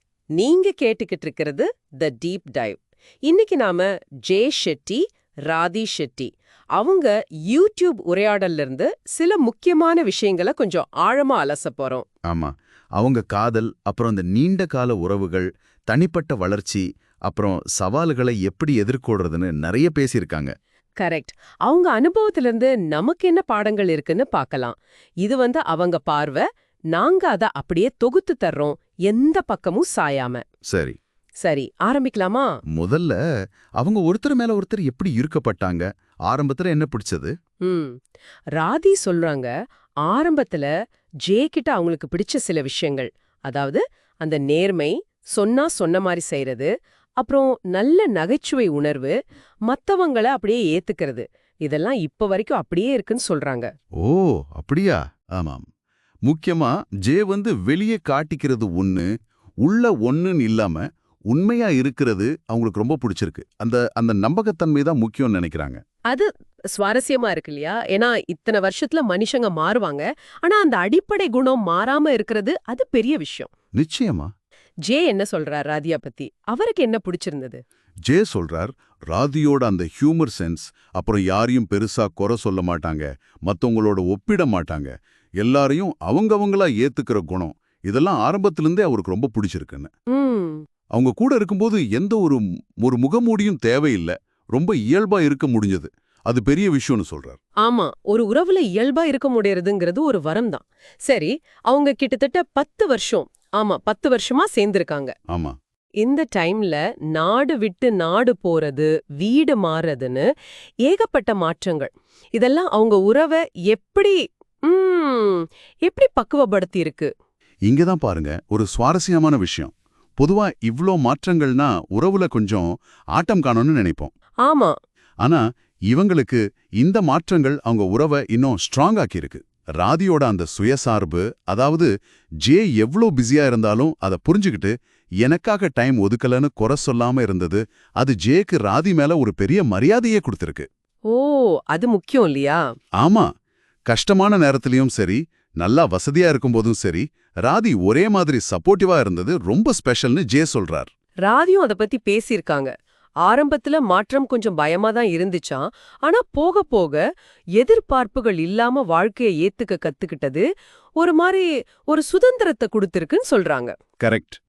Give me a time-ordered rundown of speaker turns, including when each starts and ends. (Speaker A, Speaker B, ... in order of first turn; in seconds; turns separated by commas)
Speaker A: 0.3-12.0, Speaker B: 12.3-20.5, Speaker A: 21.0-30.4, Speaker B: 30.7-31.0, Speaker A: 31.4-32.5, Speaker B: 32.7-33.2, Speaker B: 33.8-37.3, Speaker A: 37.6-38.0, Speaker A: 38.5-39.5, Speaker A: 40.0-40.7, Speaker A: 41.2-46.7, Speaker A: 47.2-49.1, Speaker A: 49.7-53.7, Speaker B: 54.0-55.6, Speaker B: 56.2-59.1, Speaker B: 59.6-65.8, Speaker A: 66.1-73.5, Speaker B: 73.7-74.3, Speaker A: 74.8-77.6, Speaker B: 78.0-89.9, Speaker A: 90.1-90.6, Speaker B: 90.9-97.4, Speaker A: 97.6-105.1, Speaker B: 105.3-105.5, Speaker A: 106.0-110.2, Speaker A: 110.8-117.1, Speaker B: 117.7-124.1, Speaker A: 124.4-124.7, Speaker B: 125.2-131.9, Speaker B: 132.4-140.7, Speaker A: 141.1-142.6, Speaker B: 143.0-143.3, Speaker B: 143.9-150.9, Speaker A: 151.2-152.7, Speaker A: 153.2-157.0, Speaker A: 157.6-160.4, Speaker A: 161.0-163.7, Speaker B: 164.0-164.4